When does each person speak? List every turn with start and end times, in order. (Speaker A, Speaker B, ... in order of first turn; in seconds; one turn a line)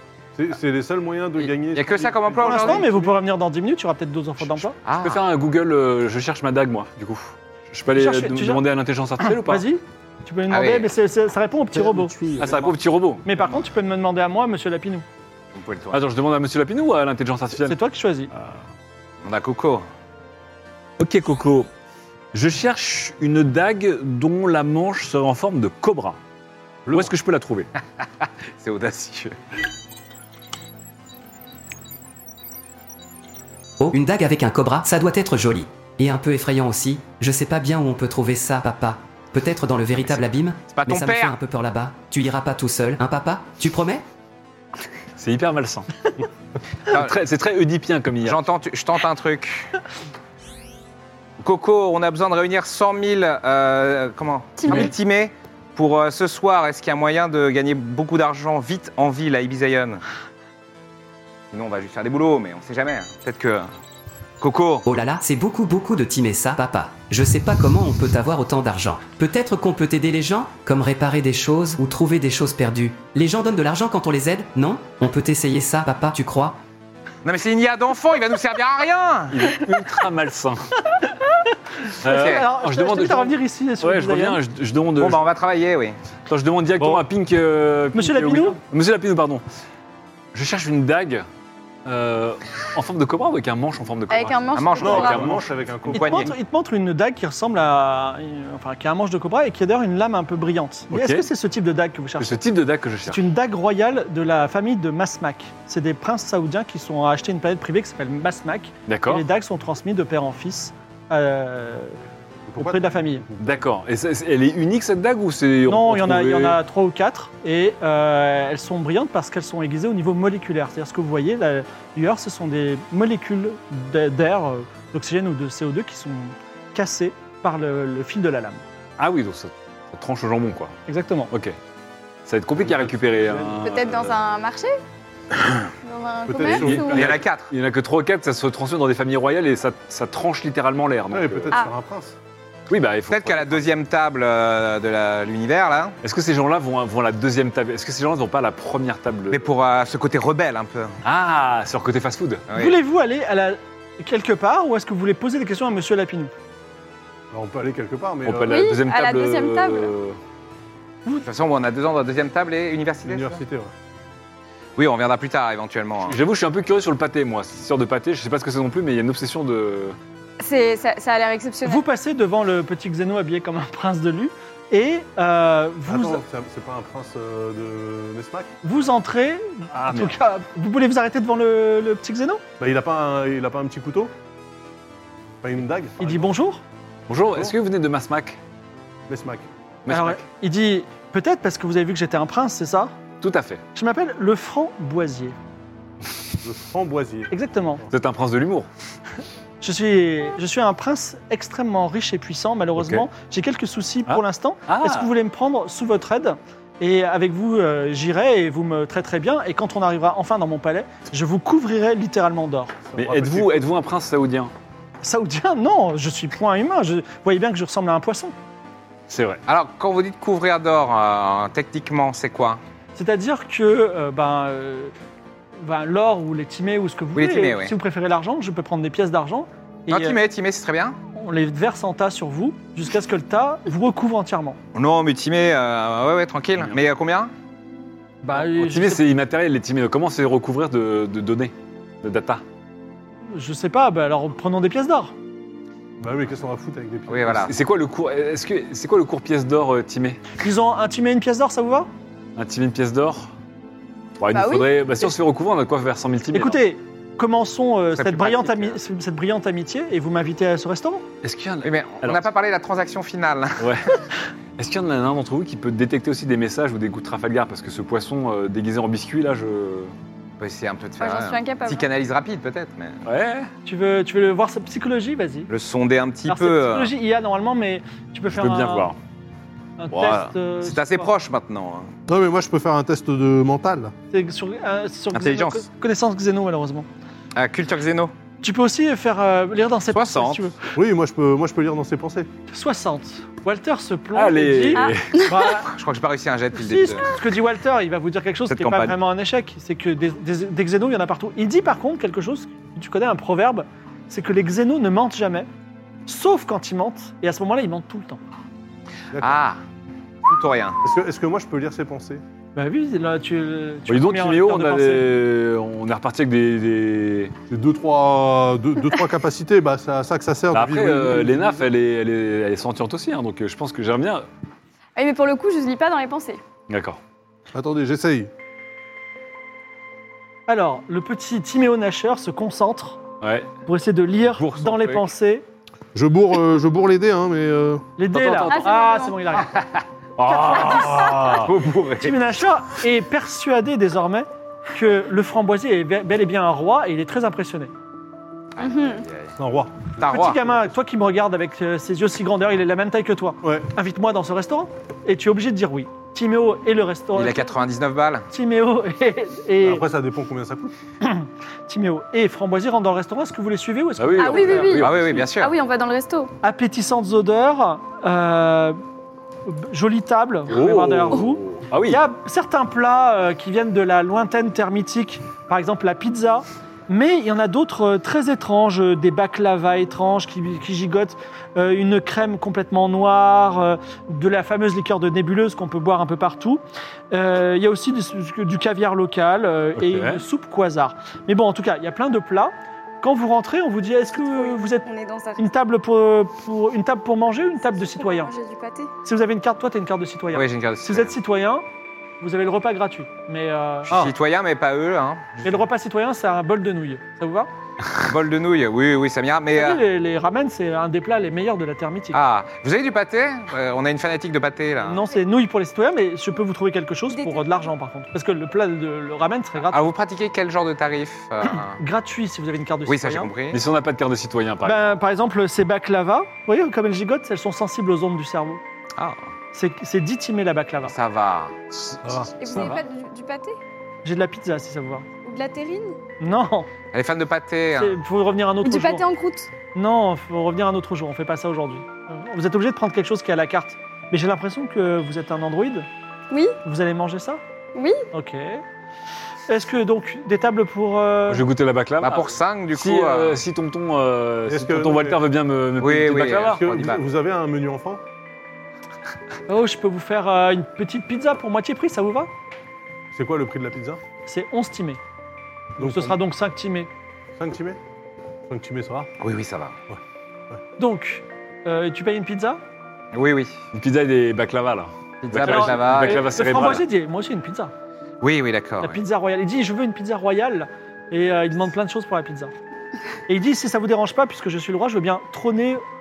Speaker A: 0.3-3.1
Speaker B: 1.7-2.9
Speaker C: 2.4-4.8
Speaker B: 4.8-5.2
Speaker D: 5.0-9.7
Speaker C: 8.0-8.6
Speaker C: 9.2-12.2
Speaker B: 10.5-10.9
Speaker A: 11.8-12.7
Speaker D: 12.4-13.3
Speaker C: 13.2-15.1
Speaker B: 15.5-16.1
Speaker D: 15.9-17.8
Speaker C: 17.7-18.3
Speaker B: 19.2-19.9
Speaker D: 21.0-21.7
Speaker D: 22.3-26.2
Speaker A: 26.9-27.1
Speaker D: 26.9-27.7
Speaker B: 28.2-29.4
Speaker E: 33.8-44.0
Speaker B: 40.7-41.4
Speaker D: 45.2-46.1
Speaker D: 46.9-48.4
Speaker B: 46.9-47.2
Speaker B: 48.2-49.7
Speaker B: 51.4-60.0
Speaker F: 54.6-54.9
Speaker B: 61.5-63.7
Speaker B: 64.4-64.9
Speaker E: 64.9-76.6
Speaker B: 77.2-79.6
Speaker D: 79.3-80.6
Speaker C: 81.9-84.4
Speaker D: 82.0-85.2
Speaker B: 82.0-82.5
Speaker B: 85.0-86.0
Speaker D: 86.3-89.4
Speaker A: 86.8-87.1
Speaker C: 87.9-88.6
Speaker D: 90.3-91.3
Speaker D: 91.9-95.5
Speaker F: 94.1-95.3
Speaker B: 94.5-95.4
Speaker A: 94.8-96.3
Speaker C: 95.9-102.5
Speaker B: 95.9-96.3
Speaker D: 100.9-101.3
Speaker D: 102.2-103.2
Speaker C: 103.0-112.0
Speaker D: 108.9-109.3
Speaker A: 112.5-113.5
Speaker C: 112.6-113.2
Speaker D: 113.4-116.6
Speaker C: 115.7-128.6
Speaker D: 129.0-130.8
Speaker C: 130.9-131.3
Speaker D: 131.3-131.6
Speaker D: 132.3-134.2
Speaker A: 132.6-133.7
Speaker F: 133.6-134.8
Speaker F: 135.8-137.2
Speaker A: 136.3-137.1
Speaker D: 136.4-141.6
Speaker B: 136.9-137.5
Speaker A: 141.1-142.2
Speaker D: 142.7-143.6
Speaker B: 143.1-146.0
Speaker D: 146.0-149.5
Speaker B: 149.3-150.9
Speaker D: 151.0-152.4
Speaker B: 152.5-152.8
Speaker C: 152.5-156.3
Speaker A: 157.3-158.6
Speaker D: 158.2-160.2
Speaker F: 158.5-159.9
Speaker B: 161.2-163.4
Speaker A: 163.1-163.7
Speaker B: 164.8-166.2
Speaker D: 166.1-170.0
Speaker F: 170.4-171.8
Speaker C: 171.6-176.2
Speaker A: 175.9-178.5
Speaker C: 178.6-182.4
Speaker D: 179.8-180.2
Speaker A: 182.6-184.1
Speaker A: 185.4-186.3
Speaker C: 186.0-186.6
Speaker D: 187.1-188.4
Speaker A: 187.3-187.6
Speaker A: 189.1-189.5
Speaker D: 189.9-190.2
Speaker C: 189.9-192.9
Speaker D: 193.2-193.6
Speaker C: 193.8-195.4
Speaker A: 196.4-197.3
Speaker C: 197.3-197.8
Speaker D: 197.9-198.7
Speaker C: 199.6-212.8
Speaker D: 202.8-203.1
Speaker D: 204.1-205.1
Speaker A: 212.9-213.6
Speaker D: 213.0-214.5
Speaker C: 215.0-218.3
Speaker D: 219.1-219.4
Speaker B: 219.5-222.6
Speaker C: 223.0-224.9
Speaker C: 225.6-230.2
Speaker B: 227.2-227.7
Speaker B: 229.9-231.0
Speaker C: 231.1-234.6
Speaker B: 234.8-237.3
Speaker C: 238.2-239.0
Speaker D: 238.3-242.4
Speaker C: 243.3-245.1
Speaker A: 246.0-247.5
Speaker B: 247.1-247.5
Speaker D: 247.4-250.2
Speaker C: 250.4-251.9
Speaker D: 252.4-253.3
Speaker D: 254.2-256.6
Speaker F: 254.3-255.1
Speaker C: 256.3-261.0
Speaker B: 257.9-258.8
Speaker D: 261.2-262.3
Speaker B: 261.6-263.8
Speaker D: 263.6-263.9
Speaker D: 264.6-269.9
Speaker B: 270.4-273.0
Speaker F: 271.0-271.9
Speaker D: 273.1-273.5
Speaker C: 273.6-275.5
Speaker B: 275.5-276.9
Speaker C: 276.3-278.9
Speaker D: 278.3-279.0
Speaker C: 279.8-281.1
Speaker D: 279.9-280.2
Speaker B: 280.6-281.9
Speaker A: 282.1-283.9
Speaker C: 284.1-286.9
Speaker B: 285.1-285.6
Speaker B: 287.4-288.1
Speaker C: 288.4-290.7
Speaker B: 289.9-290.4
Speaker A: 290.8-292.3
Speaker C: 292.5-295.7
Speaker D: 294.1-295.3
Speaker F: 294.8-295.3
Speaker B: 295.4-297.1
Speaker C: 296.6-305.5
Speaker B: 298.5-299.0
Speaker C: 306.1-308.2
Speaker A: 309.1-309.4
Speaker B: 309.2-309.6
Speaker B: 310.3-310.8
Speaker A: 310.8-312.2
Speaker C: 312.6-315.1
Speaker D: 313.9-317.3
Speaker A: 317.5-321.7
Speaker D: 320.5-324.2
Speaker F: 325.0-326.4
Speaker D: 326.7-327.0
Speaker A: 327.5-328.3
Speaker C: 330.5-333.0
Speaker D: 333.2-333.5
Speaker C: 333.7-335.4
Speaker D: 334.4-335.1
Speaker A: 335.9-337.9
Speaker C: 338.0-339.6
Speaker D: 338.1-338.8
Speaker F: 338.5-339.2
Speaker B: 339.4-342.2
Speaker D: 340.2-341.5
Speaker C: 340.3-341.4
Speaker C: 342.0-347.7
Speaker B: 348.6-349.4
Speaker F: 348.6-349.1
Speaker A: 349.4-349.9
Speaker B: 349.9-350.4
Speaker C: 350.0-357.5
Speaker B: 357.1-358.3
Speaker C: 358.3-359.8
Speaker A: 359.6-360.7
Speaker C: 361.0-364.8
Speaker D: 364.0-365.3
Speaker F: 364.2-366.3
Speaker B: 364.8-365.5
Speaker C: 366.4-368.8
Speaker C: 369.5-394.9
Speaker D: 370.5-372.0
Speaker D: 389.8-390.2
Speaker F: 394.2-395.4
Speaker C: 395.4-398.3
Speaker F: 397.8-398.9
Speaker C: 399.0-401.6
Speaker B: 400.3-401.1
Speaker C: 402.2-404.1
Speaker B: 403.9-405.6
Speaker C: 405.4-407.5
Speaker B: 408.0-409.8
Speaker C: 409.5-412.2
Speaker B: 412.1-415.0
Speaker C: 414.8-419.8
Speaker F: 417.1-417.7
Speaker B: 419.6-421.8
Speaker C: 421.5-423.3
Speaker B: 422.9-423.6
Speaker D: 423.5-424.9
Speaker C: 424.6-428.6
Speaker B: 429.0-429.2
Speaker C: 429.5-430.9
Speaker B: 430.9-431.6
Speaker D: 431.7-432.8
Speaker A: 432.0-432.4
Speaker F: 432.4-433.6
Speaker C: 434.0-435.1
Speaker F: 435.2-436.0
Speaker C: 436.2-436.7
Speaker B: 436.9-438.0
Speaker C: 437.8-439.0
Speaker F: 438.6-439.5
Speaker C: 439.8-445.9
Speaker F: 446.3-446.6
Speaker C: 446.6-447.4
Speaker F: 447.7-448.0
Speaker C: 448.1-448.6
Speaker C: 449.5-451.4
Speaker D: 451.3-456.7
Speaker B: 452.0-453.4
Speaker A: 454.5-455.2
Speaker B: 455.8-457.0
Speaker A: 456.5-458.0
Speaker C: 459.5-462.3
Speaker A: 463.1-464.0
Speaker C: 464.3-465.0
Speaker A: 465.8-466.2
Speaker C: 465.8-466.9
Speaker A: 467.4-467.8
Speaker A: 468.5-469.1
Speaker B: 469.2-469.8
Speaker C: 470.8-472.6
Speaker B: 473.1-473.6
Speaker D: 473.7-476.9
Speaker C: 475.2-477.7
Speaker B: 475.3-476.8
Speaker B: 478.2-479.0
Speaker C: 478.8-482.5
Speaker C: 483.3-485.8